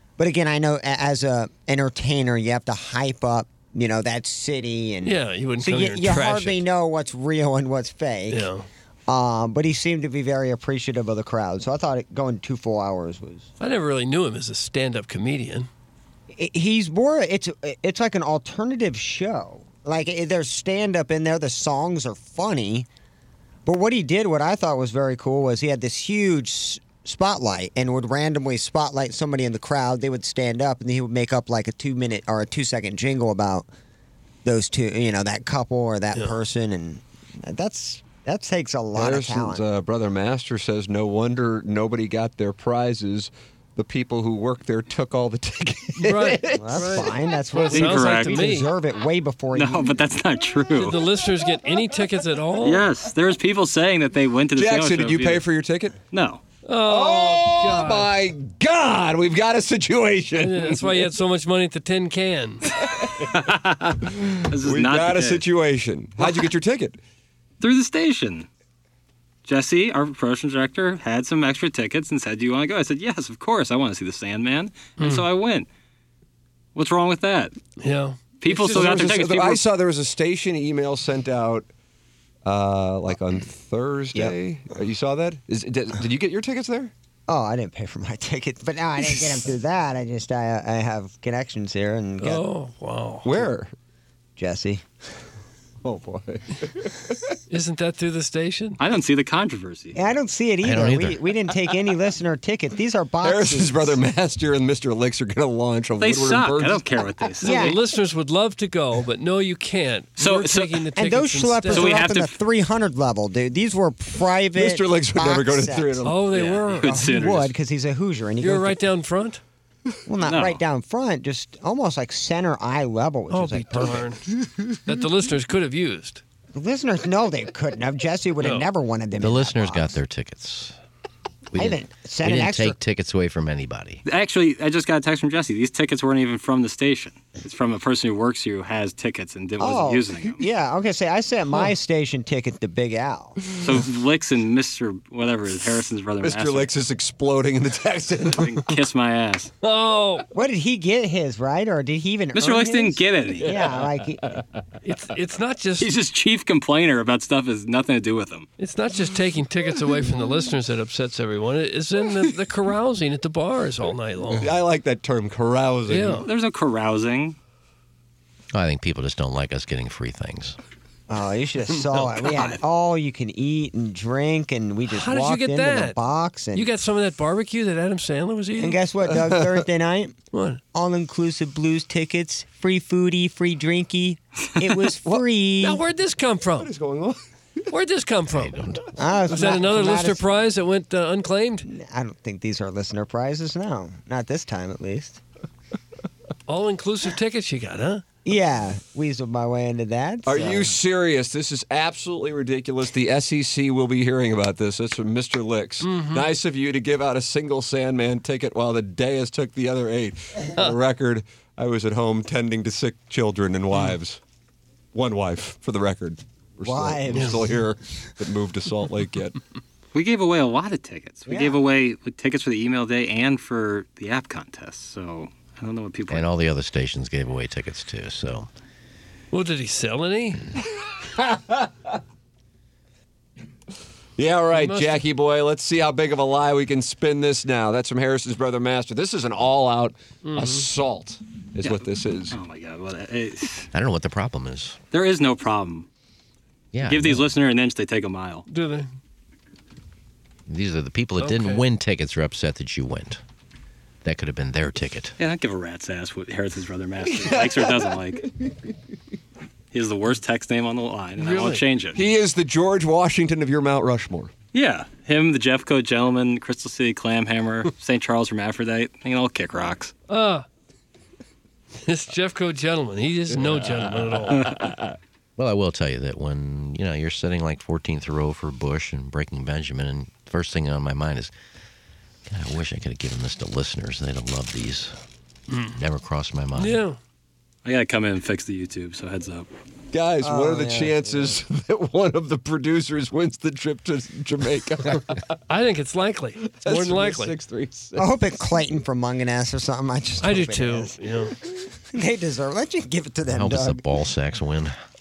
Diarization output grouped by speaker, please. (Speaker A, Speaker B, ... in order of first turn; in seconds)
Speaker A: 0.2-8.5, 9.1-13.5, 16.3-22.9, 23.7-33.7, 34.5-39.6, 46.5-49.9, 87.3-92.5, 94.4-94.8, 99.9-104.0, 107.4-107.8, 111.0-116.2, 116.8-118.8, 120.1-124.1, 126.5-130.0, 131.6-132.8, 139.6-143.6, 150.3-154.3, 171.1-176.7, 178.6-180.2, 180.7-185.8, 188.9-190.3, 191.7-195.2, 198.2-200.8, 216.6-217.6, 221.3-221.6, 290.2-291.4, 298.0-303.8
Speaker B: 5.0-6.6, 8.3-8.7, 13.6-15.7, 46.0-48.7, 50.8-52.9, 56.6-58.1, 60.4-62.7, 75.0-75.2, 77.8-79.2, 92.2-93.3, 97.5-98.8, 107.4-112.0, 116.0-117.1, 118.4-119.4, 123.3-124.2, 124.8-126.2, 128.4-128.7, 149.6-150.3, 154.8-155.9, 158.6-164.5, 165.9-166.3, 171.9-172.2, 174.9-176.0, 176.5-178.8, 180.3-180.6, 185.1-186.7, 187.7-188.6, 189.3-191.7, 196.5-198.0, 205.8-206.3, 229.3-230.4, 234.6-235.0, 240.2-240.7, 248.5-248.9, 251.2-251.6, 261.2-261.6, 270.1-270.5, 271.8-274.5, 286.6-287.0, 295.5-297.3, 300.2-301.3
Speaker C: 38.9-47.1, 54.5-56.0, 56.8-61.0, 62.9-63.3, 64.0-67.0, 78.5-81.7, 82.5-86.9, 93.2-93.7, 95.8-97.2, 103.2-106.8, 114.6-116.2, 146.2-148.6, 164.3-166.3, 179.1-179.6, 186.6-187.2, 200.2-214.2, 214.9-219.4, 231.0-231.7, 234.2-242.4, 257.0-258.5, 261.9-264.3, 273.6-274.2, 289.9-295.2, 296.4-298.2
Speaker D: 47.7-48.5, 49.5-51.0, 52.6-55.5, 56.1-56.4, 64.5-65.5, 67.6-68.5, 69.5-75.7, 76.8-77.5, 78.4-79.6, 98.8-100.0, 106.0-107.8, 110.2-110.9, 111.7-112.4, 116.3-117.5, 120.2-120.6, 134.1-140.4, 143.6-146.7, 148.2-149.5, 152.3-153.8, 155.8-158.5, 166.2-167.4, 172.3-172.6, 219.9-226.3, 241.6-243.7, 244.9-245.9, 246.8-248.4, 255.2-258.3, 259.7-262.0, 264.5-269.9, 287.6-289.5
Speaker E: 100.6-101.2, 129.2-130.8, 131.5-134.0, 168.5-170.6, 188.3-188.8, 226.1-228.5, 243.7-244.8, 246.7-247.3, 250.5-253.2, 254.0-255.2, 275.4-281.3, 282.3-285.0, 285.7-286.8, 303.3-304.8